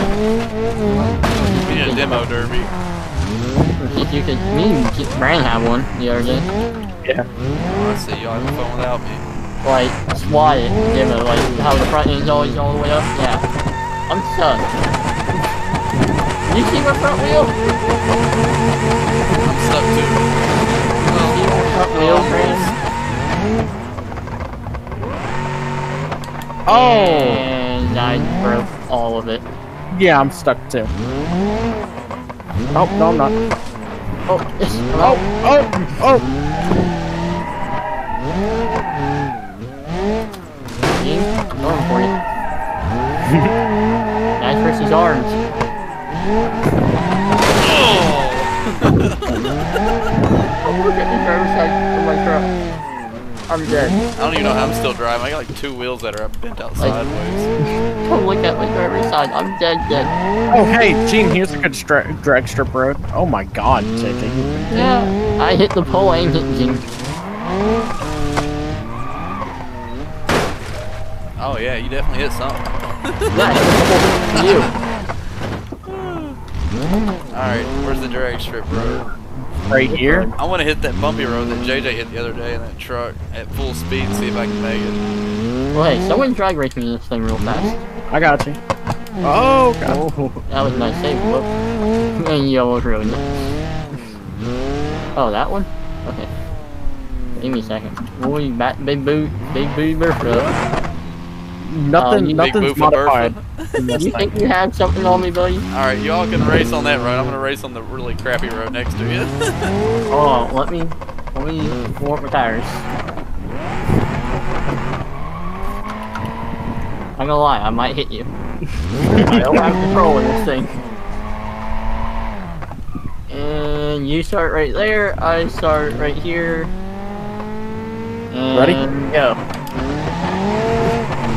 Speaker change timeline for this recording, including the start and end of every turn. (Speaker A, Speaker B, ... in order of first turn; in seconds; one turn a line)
Speaker A: 0.8-2.2
Speaker B: 1.6-2.7
Speaker A: 3.8-6.5
Speaker B: 7.6-9.2
Speaker A: 9.6-13.4
Speaker A: 14.1-14.9
Speaker A: 16.4-17.8
Speaker B: 19.4-20.4
Speaker B: 21.0-22.7
Speaker A: 21.1-22.7
Speaker C: 26.6-27.4
Speaker A: 26.7-29.4
Speaker C: 29.9-30.9
Speaker C: 32.7-33.3
Speaker A: 34.3-35.2
Speaker C: 35.0-36.3
Speaker A: 40.9-42.2
Speaker C: 43.2-43.5
Speaker A: 44.4-45.4
Speaker B: 47.5-49.9
Speaker A: 50.6-52.5
Speaker A: 53.5-54.0
Speaker B: 54.1-57.5
Speaker A: 58.0-60.1
Speaker C: 60.5-64.9
Speaker A: 64.7-66.8
Speaker B: 71.4-73.6
Speaker A: 73.3-74.7
Speaker B: 74.3-74.7
Speaker B: 75.8-76.4
Speaker B: 77.3-79.1
Speaker C: 79.7-80.3
Speaker A: 79.9-80.3
Speaker B: 80.4-85.0
Speaker A: 85.7-87.8
Speaker C: 88.1-88.6
Speaker C: 89.2-90.4
Speaker A: 90.5-91.5
Speaker A: 92.2-93.2
Speaker A: 95.2-96.3
Speaker A: 97.3-100.5
Speaker C: 101.6-104.3
Speaker A: 102.0-102.4
Speaker B: 102.3-103.9
Speaker A: 103.9-105.6
Speaker B: 105.7-109.8
Speaker A: 110.1-112.9
Speaker A: 117.2-120.8
Speaker C: 119.1-119.7
Speaker A: 123.3-126.7
Speaker A: 128.3-129.4
Speaker C: 128.5-128.8